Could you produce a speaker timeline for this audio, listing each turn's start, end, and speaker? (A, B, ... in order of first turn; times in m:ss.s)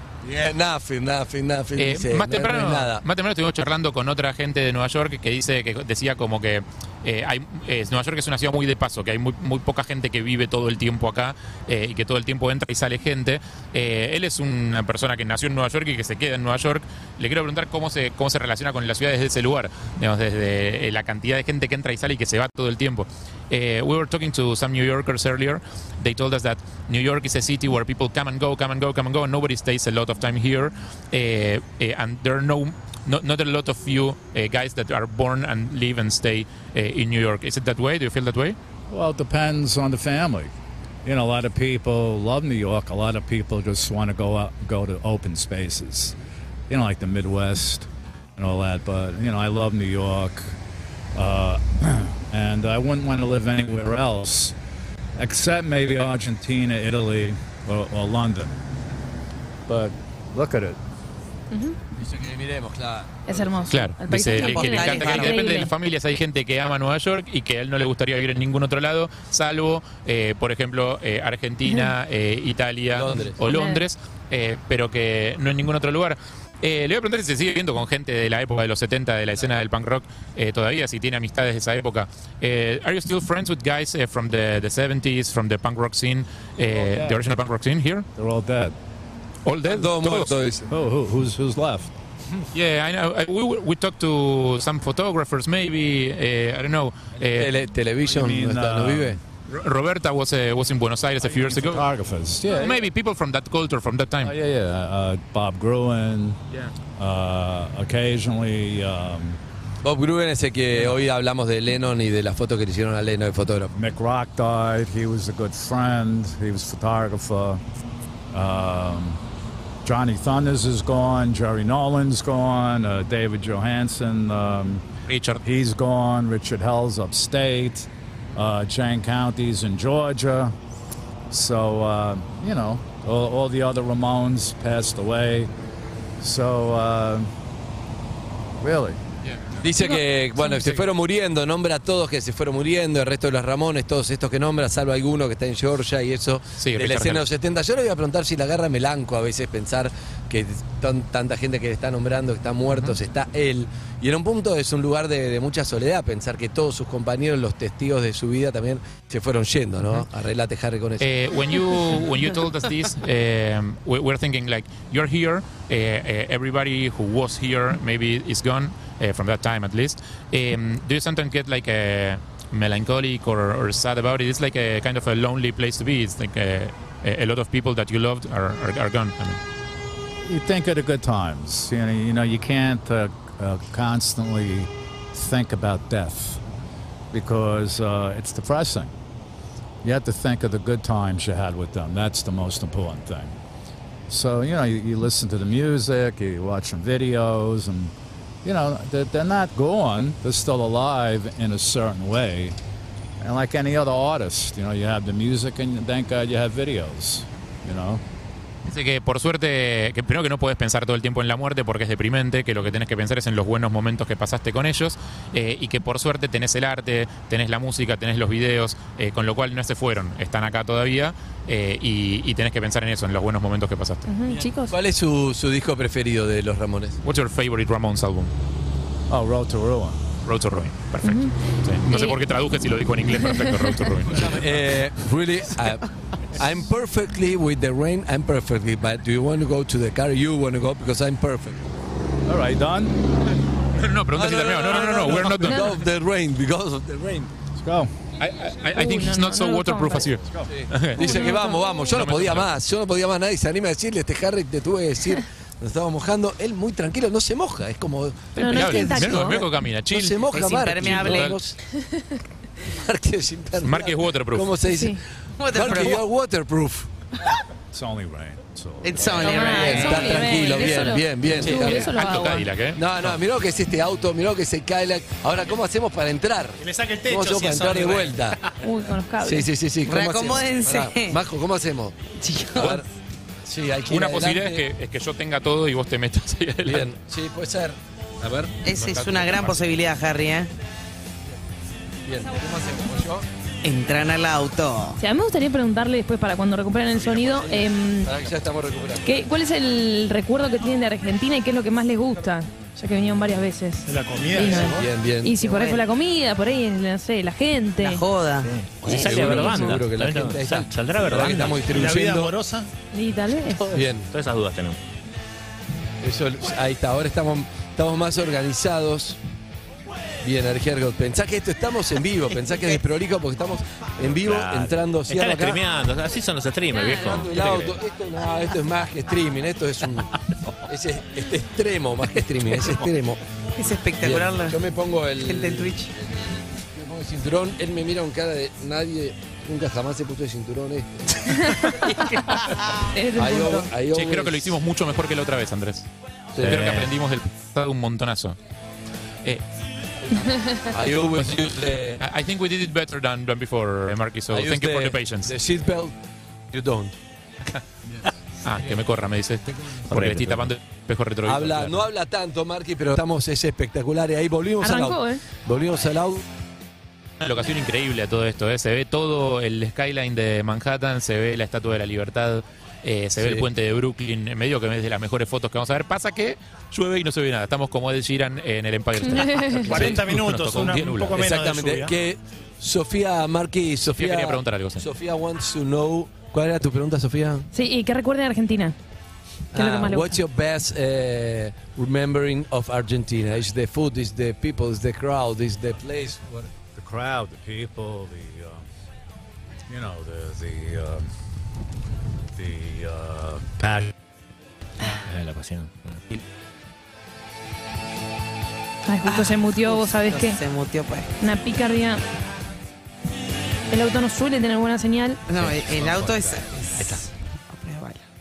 0:00.2-0:03.0 A
0:01.8-0:38.6 B
0:38.9-0:40.5 C
0:41.0-0:46.1 C
0:46.7-0:50.6 C
0:51.1-0:54.6 C
0:55.2-0:58.6 C
0:59.7-1:00.8 C
1:01.5-1:01.8 D
1:02.0-1:03.5 A
1:03.3-1:05.7 D
1:03.7-1:28.1 B
1:04.1-1:05.7 E
1:12.9-1:13.4 A
1:13.5-1:13.8 D
1:26.7-1:27.2 C
1:28.2-1:28.7 C
1:29.4-1:30.3 B
1:29.6-1:30.7 A
1:30.7-1:31.9 C
1:32.5-1:37.5 B
1:37.3-1:39.2 A
1:38.0-1:39.2 C
1:39.5-1:41.9 B
1:41.3-1:42.8 C
1:42.4-1:44.3 B
1:44.2-1:46.4 C
1:47.0-1:49.4 C
1:49.8-1:53.7 A
1:50.7-1:51.0 C
1:53.7-1:57.6 C
1:58.3-1:59.2 C
1:59.8-2:04.8 C
2:05.1-2:05.4 B
2:05.4-2:10.6 C
2:11.3-2:15.5 C
2:16.2-2:17.3 C
2:18.6-2:19.0 C
2:19.5-2:41.1 A
2:19.8-2:20.6 D
2:26.6-2:27.3 B
2:41.0-2:59.4 B
3:00.2-3:06.4 C
3:07.1-3:08.9 C
3:09.8-3:13.3 C
3:14.1-3:17.9 C
3:18.4-3:22.6 C
3:23.2-3:28.0 C
3:28.7-3:44.0 B
3:44.1-3:44.8 D
3:44.3-3:47.0 A
3:47.0-3:48.3 B
3:49.1-3:50.0 C
3:50.2-3:54.4 B
3:51.0-3:51.3 D
3:51.9-3:52.2 D
3:53.4-3:53.7 D
3:54.0-4:01.6 A
4:02.3-4:03.0 C
4:03.7-4:05.7 B
4:04.1-4:07.3 A
4:07.6-4:07.9 C
4:08.2-4:12.5 B
4:08.7-4:10.1 D
4:10.5-4:21.6 A
4:11.0-4:11.9 D
4:18.4-4:21.4 B
4:18.4-4:19.4 D
4:20.3-4:21.4 E
4:22.6-4:26.9 A
4:23.6-4:24.6 B
4:24.7-4:25.0 D
4:25.4-4:26.0 E
4:27.7-4:29.4 C
4:28.8-4:30.4 E
4:29.2-4:32.5 D
4:29.3-4:32.0 A
4:31.4-4:33.2 B
4:32.7-4:38.4 A
4:36.6-4:38.6 F
4:38.6-4:39.5 D
4:39.2-4:42.0 A
4:39.9-4:41.2 E
4:42.2-4:42.8 E
4:42.5-4:42.8 A
4:42.6-4:42.8 B
4:43.4-4:44.6 A
4:43.9-4:46.9 B
4:46.7-4:49.6 A
4:48.6-4:50.5 E
4:52.0-4:53.3 A
4:53.6-4:55.0 E
4:55.0-4:58.1 D
4:56.9-4:59.2 A
4:59.0-5:08.0 D
5:03.9-5:04.9 F
5:04.4-5:05.4 A
5:05.4-5:05.8 E
5:07.8-5:08.5 E
5:08.4-5:11.8 G
5:08.8-5:12.3 A
5:09.0-5:09.7 D
5:11.6-5:12.7 F
5:12.9-5:13.7 D
5:13.7-5:14.1 A
5:13.7-5:14.8 G
5:16.0-5:19.2 A
5:20.2-5:25.6 A
5:24.1-5:27.8 G
5:26.7-5:27.0 D
5:27.0-5:33.2 A
5:33.6-5:34.6 E
5:34.0-5:42.0 A
5:35.2-5:35.9 E
5:41.3-5:43.7 D
5:43.2-5:44.6 A
5:43.9-5:48.4 B
5:46.3-5:46.9 A
5:50.7-5:52.0 A
5:52.0-5:55.3 B
5:54.3-5:56.9 A
5:58.4-6:01.9 B
5:59.6-6:00.1 A
5:59.9-6:00.5 G
6:01.2-6:06.3 A
6:04.6-6:05.2 D
6:07.2-6:21.2 B
6:13.2-6:13.5 A
6:19.0-6:19.7 D
6:19.6-6:22.0 F
6:21.1-6:27.5 A
6:23.9-6:24.8 B
6:27.5-6:28.8 D
6:29.5-6:36.4 A
6:29.5-6:30.2 D
6:36.6-6:38.7 C
6:39.7-6:41.1 C
6:42.3-6:43.9 C
6:45.0-6:46.0 G
6:48.9-6:50.4 D
6:49.0-6:51.1 E
6:51.2-6:52.0 D
6:53.7-6:55.2 D
6:55.3-6:58.0 E
6:55.4-6:56.4 C